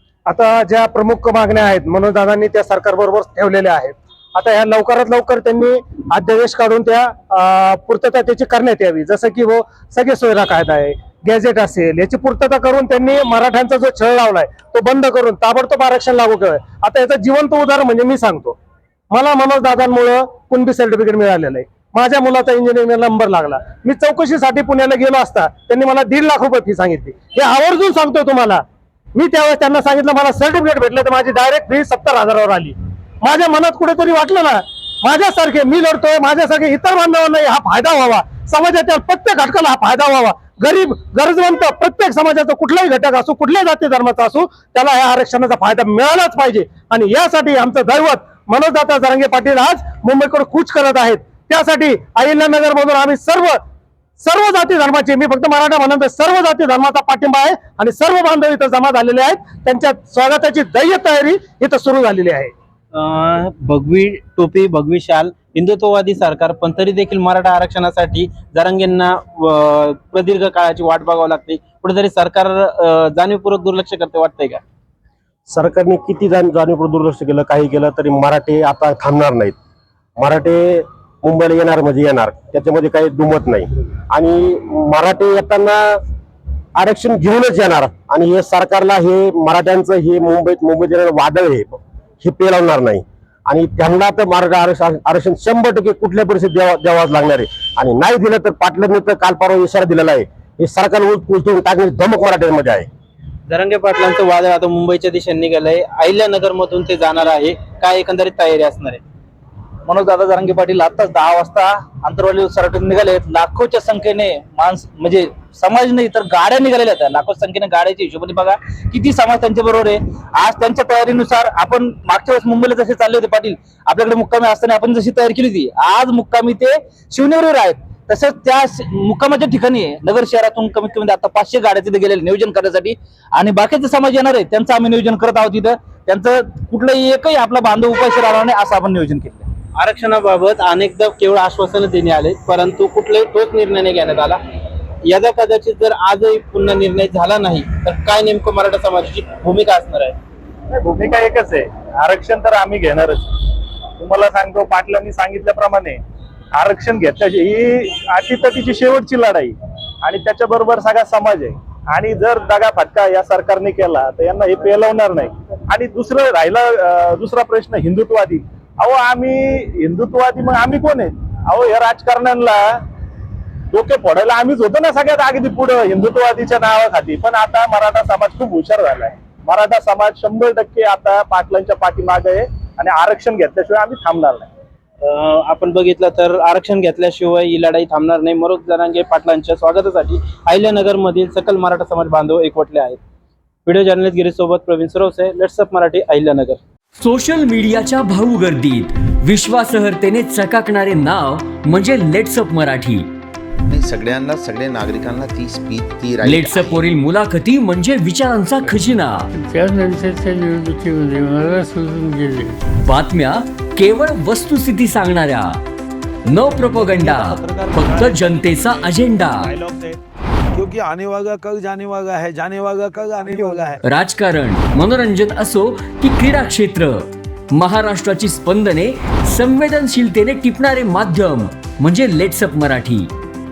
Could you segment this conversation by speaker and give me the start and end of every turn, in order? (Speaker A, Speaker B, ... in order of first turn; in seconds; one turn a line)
Speaker A: 0.3-18.6
Speaker A: 19.1-28.6
Speaker A: 29.1-53.6
Speaker A: 54.2-62.5
Speaker B: 62.9-74.6
Speaker C: 75.5-79.5
Speaker C: 80.2-86.0
Speaker C: 86.8-102.9
Speaker B: 103.5-109.0
Speaker D: 109.9-139.5
Speaker B: 139.8-144.4
Speaker B: 145.1-150.2
Speaker E: 150.7-153.3
Speaker E: 154.0-156.0
Speaker E: 156.6-172.8
Speaker E: 173.7-184.5
Speaker B: 185.1-193.0
Speaker B: 193.7-196.6
Speaker F: 197.0-203.1
Speaker G: 203.7-206.8
Speaker F: 206.2-209.3
Speaker H: 209.3-212.6
Speaker F: 212.7-215.6
Speaker F: 216.3-219.6
Speaker I: 216.5-218.7
Speaker E: 217.6-218.1
Speaker E: 219.5-219.7
Speaker I: 220.5-223.8
Speaker F: 223.8-233.1